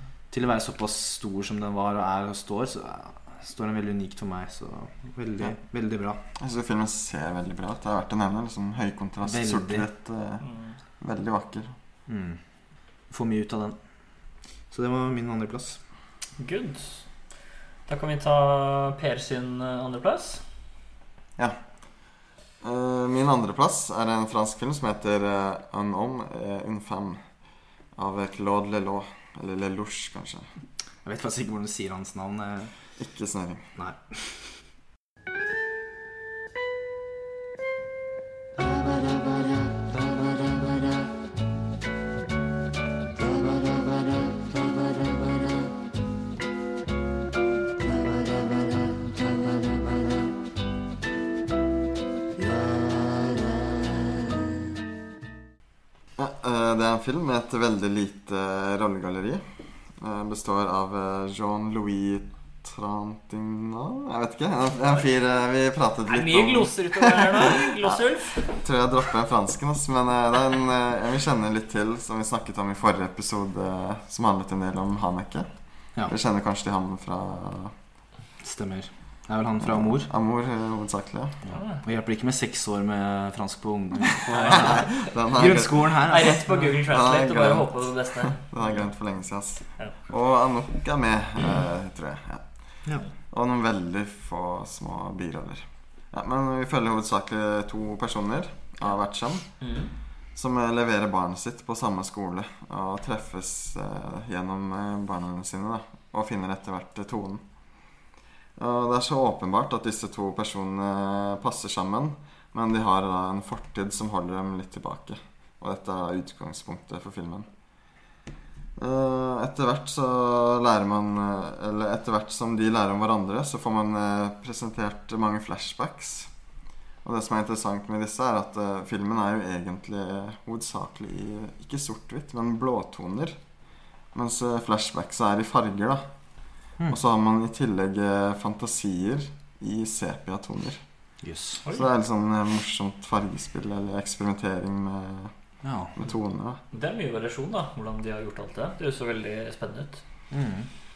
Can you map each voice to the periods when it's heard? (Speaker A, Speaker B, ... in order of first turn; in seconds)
Speaker A: 0.3-6.2, 9.2-9.8, 12.1-12.4, 13.1-13.8, 14.7-15.8, 31.0-32.7, 33.8-34.6, 78.4-80.1, 81.5-86.5, 141.2-141.6, 145.6-145.9, 150.3-150.7
Speaker B: 6.4-10.4, 11.0-11.7, 22.6-27.4, 27.9-30.5, 33.0-33.6, 56.2-77.7, 79.8-81.4, 84.5-99.7, 100.3-107.4, 108.5-117.5, 118.8-126.3, 127.0-133.4, 134.1-136.0, 136.9-140.8, 141.7-145.3, 145.9-146.6
Speaker C: 10.4-10.8, 16.4-17.1, 17.9-20.4, 66.1-68.5, 81.5-81.8, 84.3-84.9, 86.1-88.9, 99.6-99.9, 146.7-150.0